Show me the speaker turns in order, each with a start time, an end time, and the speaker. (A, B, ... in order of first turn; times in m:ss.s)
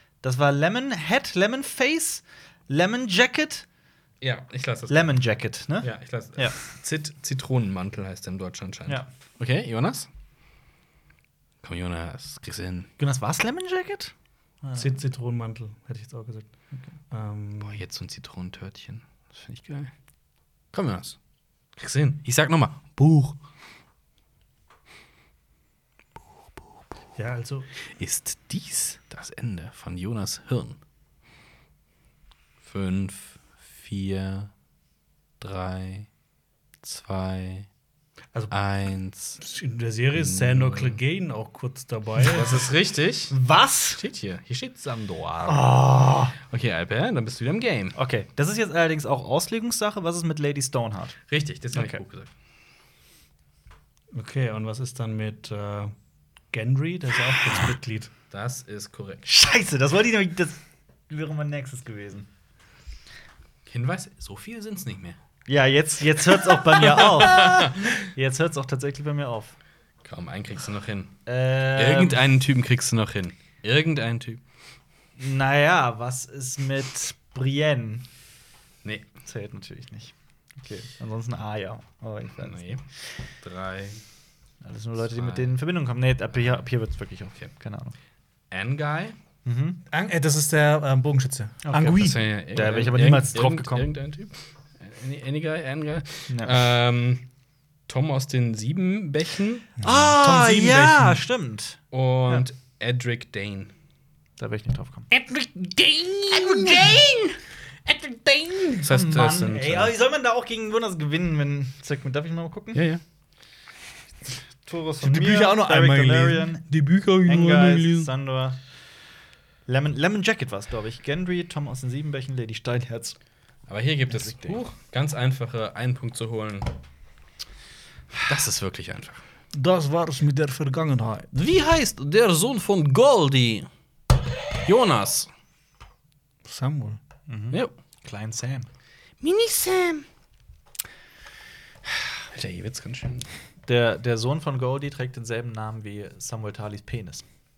0:00.2-0:03.7 A
0:04.2-0:05.1 B
0:04.9-0:06.6 A
0:05.8-0:10.1 B
0:11.6-0:12.9 B
0:13.0-0:14.9 A
0:14.8-0:16.5 C
0:17.1-0:17.8 C
0:17.6-0:19.9 B
0:20.7-0:21.2 B
0:21.8-0:23.4 B
0:27.2-0:27.7 C
0:27.9-0:30.8 B
0:32.6-0:34.5 B
0:35.4-0:36.1 B
0:36.8-0:37.7 B
0:38.5-0:39.4 B
0:39.4-0:42.7 C
0:40.2-0:41.0 B
0:42.3-0:43.4 B
0:43.3-0:44.0 A
0:44.0-0:45.7 B
0:45.5-0:46.4 A
0:46.5-0:48.0 B
0:48.0-0:51.2 A
0:51.3-0:52.3 B
0:51.7-0:52.0 A
0:54.1-0:55.9 C
0:56.5-0:58.1 C
0:58.3-0:59.3 B
0:59.3-1:02.3 A
1:03.7-1:05.2 B
1:05.5-1:09.6 A
1:06.7-1:07.9 B
1:10.0-1:11.2 B
1:11.3-1:12.2 A
1:11.7-1:14.4 B
1:15.2-1:18.0 A
1:18.8-1:19.1 B
1:19.2-1:22.6 A
1:22.4-1:22.8 B
1:23.4-1:24.0 B
1:24.6-1:28.0 A
1:25.1-1:25.6 B
1:28.5-1:29.2 B
1:29.4-1:29.8 A
1:29.9-1:32.2 C
1:31.6-1:33.9 A
1:31.9-1:37.3 B
1:36.3-1:36.6 A
1:37.9-1:39.7 B
1:39.8-1:42.4 A
1:39.8-1:41.2 C
1:41.9-1:43.7 B
1:44.4-1:45.1 A
1:45.1-1:47.2 C
1:46.5-1:47.0 A
1:47.9-1:48.8 C
1:48.8-1:49.9 B
1:48.8-1:52.8 A
1:52.7-1:53.0 B
1:54.7-1:56.6 A
1:55.0-1:58.0 C
1:56.8-1:58.0 B
1:57.2-1:58.6 A
1:59.7-2:03.2 A
2:03.7-2:06.7 B
2:04.1-2:04.6 A
2:08.2-2:09.2 B
2:09.5-2:11.3 C
2:11.3-2:13.7 B
2:14.6-2:15.3 B
2:16.4-2:17.0 C
2:17.3-2:18.7 A
2:19.2-2:20.1 B
2:22.3-2:23.3 B
2:23.7-2:27.2 A